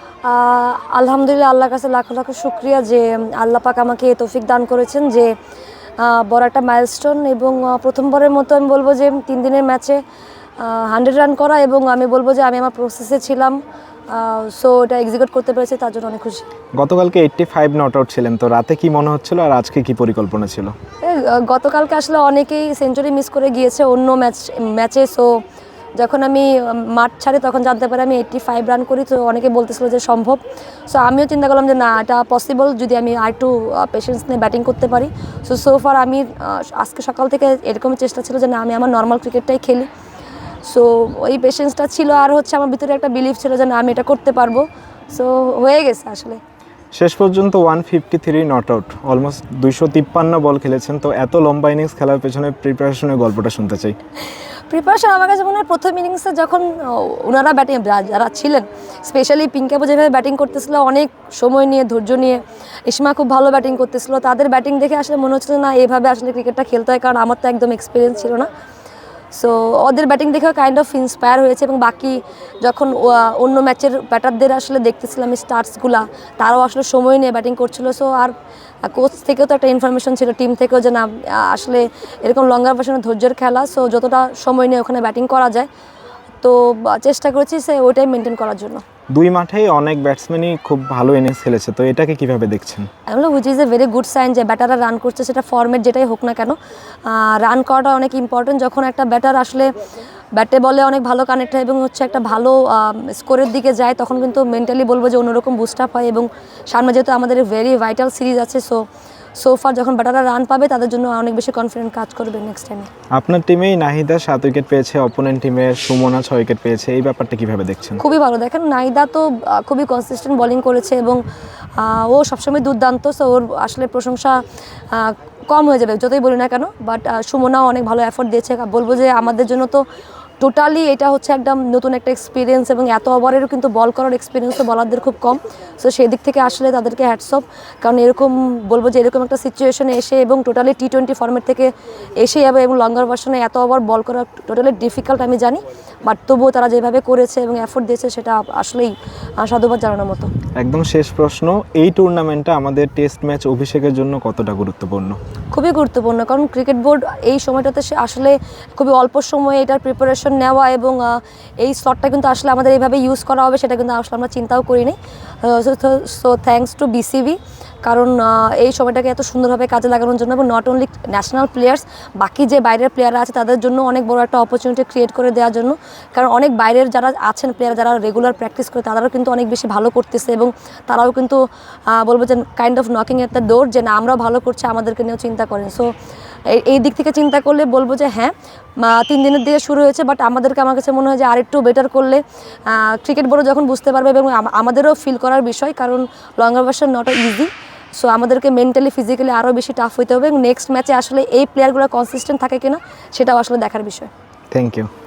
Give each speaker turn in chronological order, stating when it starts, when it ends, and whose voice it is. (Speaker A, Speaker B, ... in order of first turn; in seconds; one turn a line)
Speaker A: 0.2-5.3
Speaker A: 6.0-10.0
Speaker A: 10.6-13.6
Speaker A: 14.1-16.4
Speaker B: 16.8-20.7
Speaker A: 21.0-25.4
Speaker A: 26.0-39.9
Speaker A: 40.6-46.4
Speaker B: 46.9-54.0
Speaker A: 54.7-68.5
Speaker A: 69.3-85.7
Speaker A: 86.4-88.8
Speaker B: 89.1-92.9
Speaker A: 93.1-99.7
Speaker A: 100.4-108.8
Speaker A: 109.4-112.9
Speaker B: 113.1-118.0
Speaker A: 118.0-121.2
Speaker A: 121.8-124.4
Speaker A: 124.9-129.8
Speaker A: 130.4-150.3
Speaker B: 150.6-155.2
Speaker A: 155.5-185.9
Speaker A: 186.5-204.1
Speaker B: 204.5-204.9